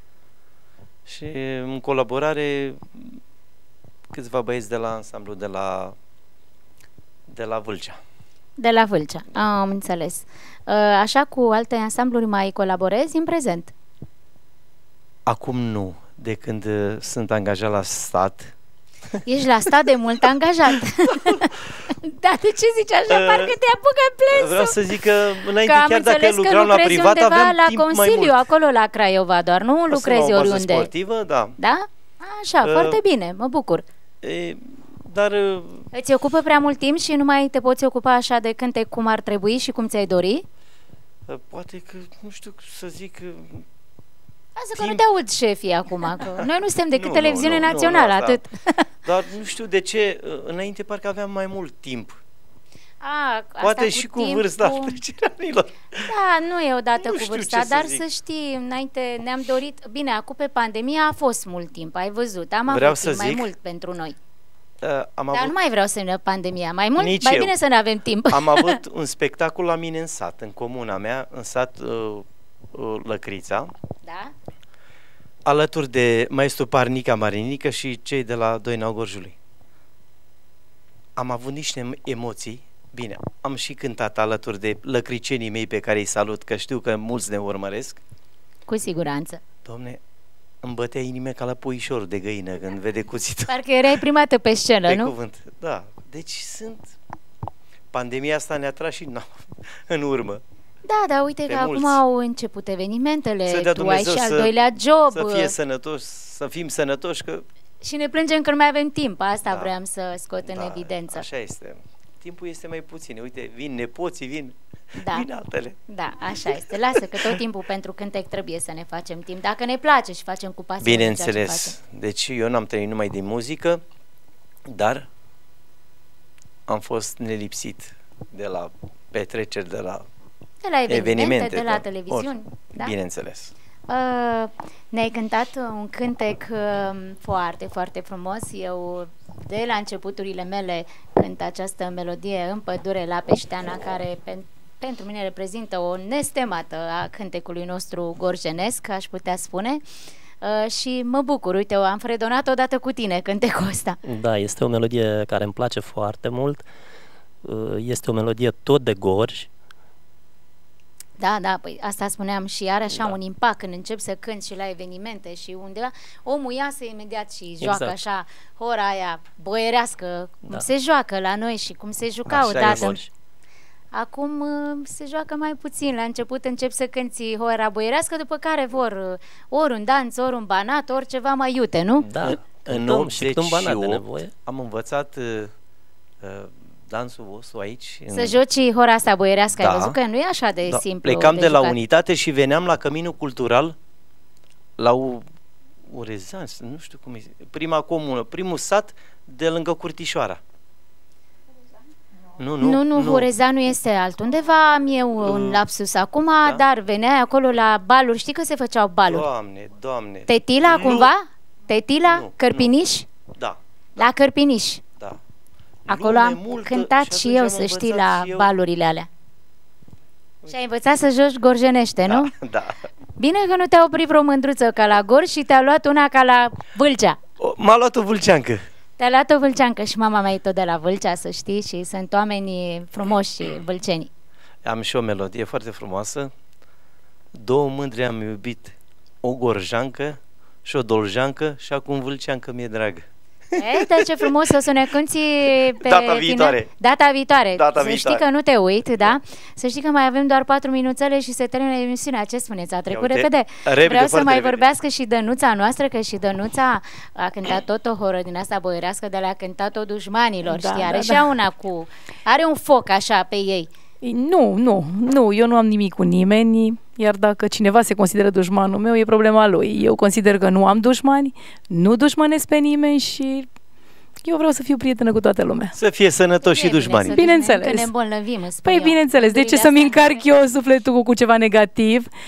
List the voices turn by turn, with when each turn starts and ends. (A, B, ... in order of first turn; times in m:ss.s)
0:01.1-0:03.1 A
0:04.1-0:05.9 A
0:07.3-0:08.0 A
0:08.6-0:13.7 B
0:15.2-0:18.5 A
0:19.2-0:21.5 B
0:21.1-0:21.5 A
0:22.0-0:24.8 B
0:23.1-0:23.5 A
0:24.3-0:28.4 A
0:25.6-0:30.9 B
0:29.9-0:31.6 A
0:31.6-0:33.8 B
0:32.6-0:33.0 A
0:34.2-0:35.9 A
0:35.9-0:40.4 B
0:41.3-0:43.6 A
0:44.6-0:48.8 B
0:44.8-0:45.0 A
0:46.1-0:46.4 A
0:46.9-0:48.4 A
0:49.0-0:52.2 A
0:53.0-0:55.0 B
0:53.6-0:56.1 A
0:56.0-1:04.2 B
0:57.0-0:58.0 A
1:02.7-1:03.5 A
1:04.8-1:05.5 A
1:05.3-1:08.8 B
1:07.0-1:07.5 A
1:08.3-1:13.7 A
1:14.0-1:14.3 B
1:15.4-1:19.4 A
1:21.2-1:28.0 A
1:28.7-1:29.4 B
1:29.6-1:30.0 A
1:30.6-1:33.5 A
1:33.5-1:35.1 B
1:34.9-1:36.9 A
1:37.9-1:40.4 A
1:40.9-1:45.5 B
1:41.5-1:42.0 A
1:43.5-1:44.5 A
1:45.1-1:47.4 A
1:47.8-1:51.2 B
1:50.4-1:54.6 A
1:55.0-1:55.3 B
1:55.1-1:55.8 A
1:55.9-2:01.7 B
2:00.8-2:03.8 A
2:04.7-2:05.1 A
2:06.7-2:10.0 A
2:10.6-2:12.9 B
2:10.9-2:13.5 A
2:13.9-2:29.8 B
2:30.4-2:34.0 B
2:34.0-2:36.6 C
2:37.4-2:39.5 C
2:41.2-2:53.0 B
2:47.6-2:48.0 C
2:52.3-2:53.0 A
2:52.6-2:53.1 C
2:53.9-3:02.1 B
3:02.0-3:04.3 C
3:02.2-3:05.5 A
3:06.2-3:08.4 A
3:08.1-3:11.8 B
3:09.6-3:09.9 A
3:10.7-3:13.8 A
3:14.8-3:15.2 A
3:15.9-3:20.4 A
3:22.4-3:23.3 A
3:22.6-3:29.3 B
3:25.2-3:25.6 A
3:29.1-3:31.1 A
3:30.3-3:33.1 B
3:32.1-3:32.7 A
3:33.3-3:34.1 A
3:34.0-3:34.8 B
3:35.9-3:38.5 A
3:35.9-3:39.1 B
3:40.5-3:42.3 B
3:42.0-3:42.8 A
3:43.2-3:47.2 B
3:47.4-3:48.6 A
3:49.0-3:54.1 B
3:54.6-3:56.3 A
3:57.3-4:03.0 A
4:03.6-4:23.7 B
4:05.8-4:06.7 A
4:07.5-4:08.2 A
4:12.9-4:14.6 A
4:20.4-4:21.3 D
4:24.0-4:33.5 D
4:34.2-4:35.7 D
4:35.8-4:37.1 A
4:36.4-4:40.2 B
4:37.1-4:37.9 D
4:38.6-4:42.1 D